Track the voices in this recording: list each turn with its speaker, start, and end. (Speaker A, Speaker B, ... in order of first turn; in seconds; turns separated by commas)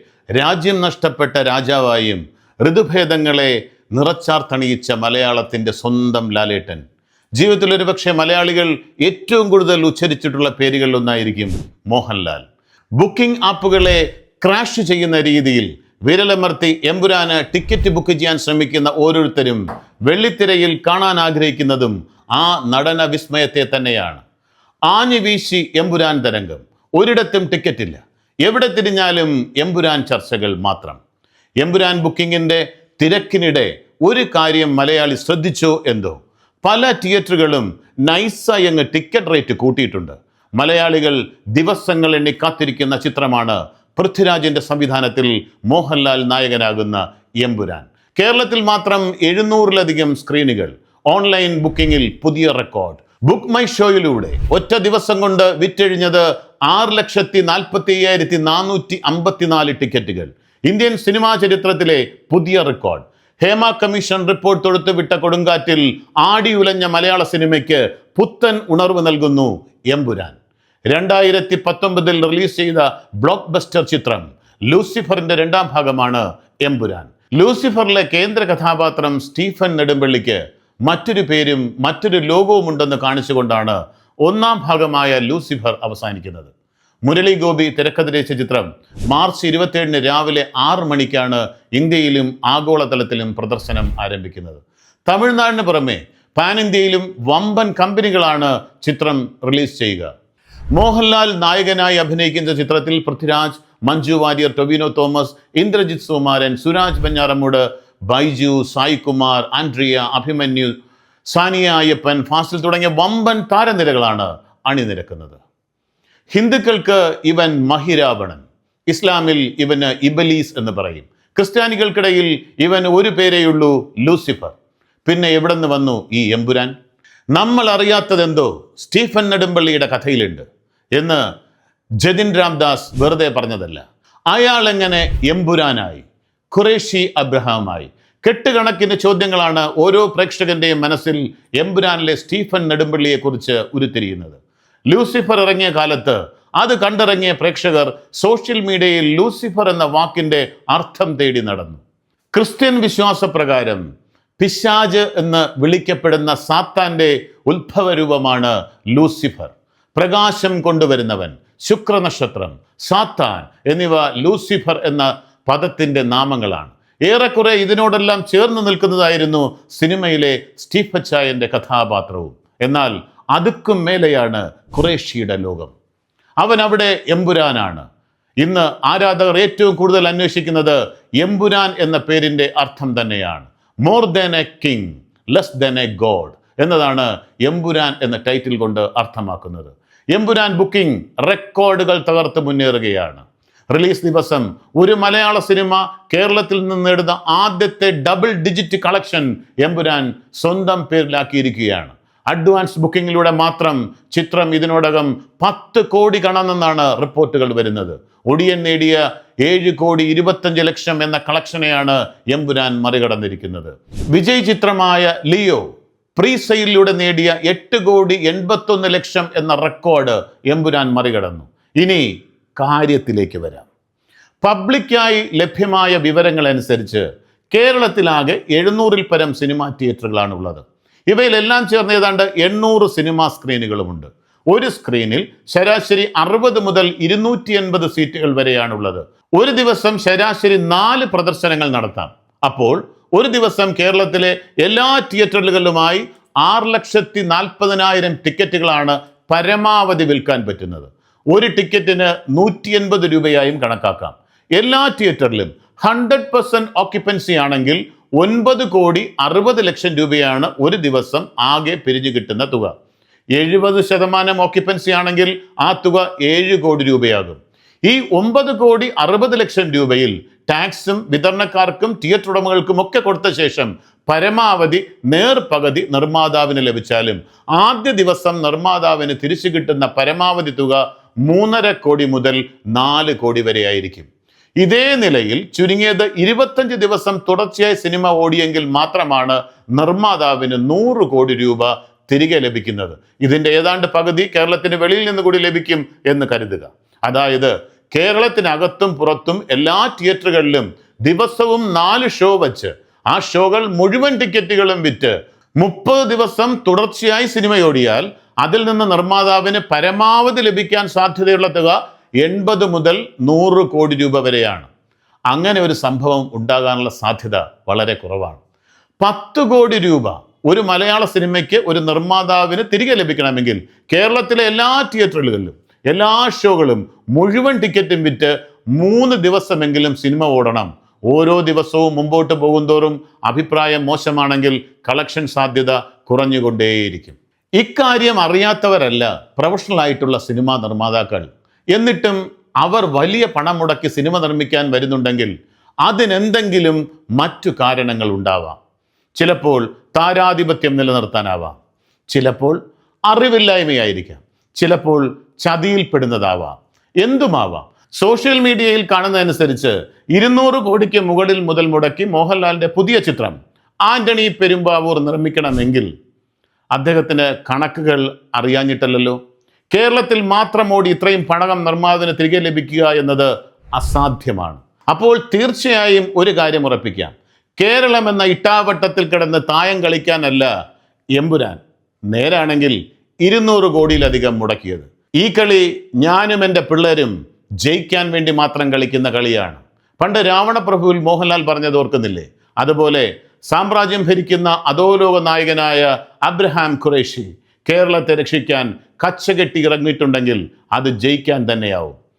Speaker A: 0.4-6.8, Speaker A: 7.4-12.5, Speaker A: 13.0-24.2, Speaker A: 24.9-31.0, Speaker A: 31.6-70.4, Speaker A: 70.9-86.5, Speaker A: 87.1-100.1, Speaker A: 100.8-110.7, Speaker A: 111.3-115.4, Speaker A: 116.3-124.5, Speaker A: 125.1-126.7, Speaker A: 127.3-131.2, Speaker A: 132.0-144.4, Speaker A: 144.9-151.8, Speaker A: 152.3-153.8, Speaker A: 154.4-175.7, Speaker A: 176.4-177.9, Speaker A: 178.4-215.6, Speaker A: 216.2-223.7, Speaker A: 224.4-262.7, Speaker A: 263.4-284.1, Speaker A: 284.6-314.7, Speaker A: 315.3-318.4, Speaker A: 319.0-345.3, Speaker A: 345.8-348.6, Speaker A: 349.2-351.6, Speaker A: 352.1-352.6, Speaker A: 353.1-365.9, Speaker A: 366.7-369.2, Speaker A: 369.7-380.5, Speaker A: 381.2-381.6, Speaker A: 382.1-402.0